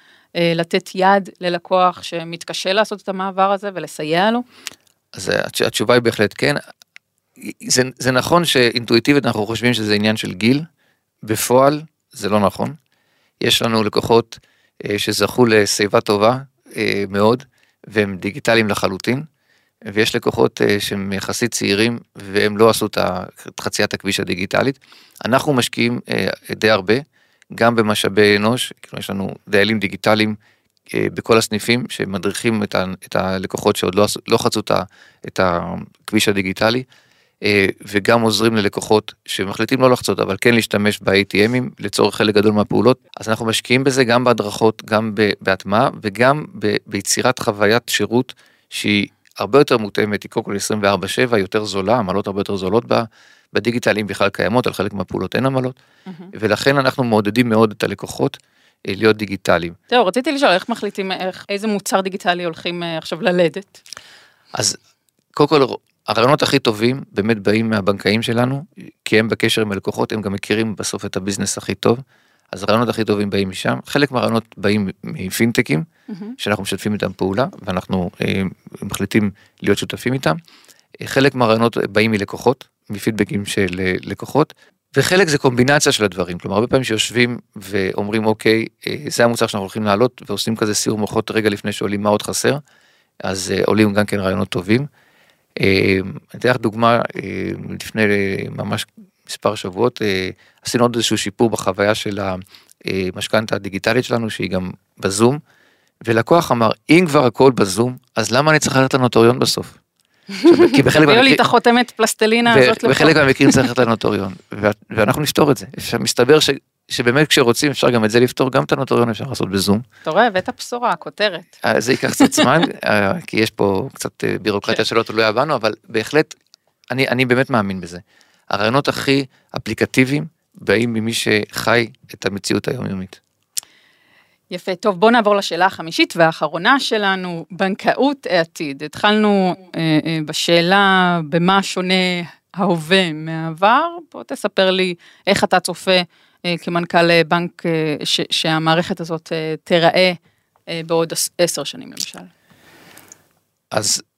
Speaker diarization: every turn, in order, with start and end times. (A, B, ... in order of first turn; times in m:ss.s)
0:00.4-0:04.4 A
0:05.1-0:06.6 B
0:07.4-0:10.6 B
0:11.2-0:12.8 B
0:13.4-0:19.2 B
0:19.9-0:27.0 B
0:27.5-0:30.4 B
0:30.9-0:36.8 B
0:37.4-0:55.8 B
0:56.3-0:58.4 B
0:58.9-0:59.8 B
0:59.9-1:03.8 A
1:05.3-1:12.0 B
1:12.5-1:15.8 B
1:16.1-1:16.3 A
1:16.4-1:20.4 B
1:21.0-1:32.6 B
1:33.2-1:34.9 B
1:35.6-1:45.4 B
1:46.0-1:49.8 B
1:50.3-1:53.7 A
1:50.4-1:51.4 B
1:52.4-1:59.8 B
2:00.0-2:02.5 A
2:01.6-2:06.3 B
2:06.9-2:13.2 B
2:14.5-2:30.2 A
2:30.7-2:32.3 A
2:33.7-2:34.0 B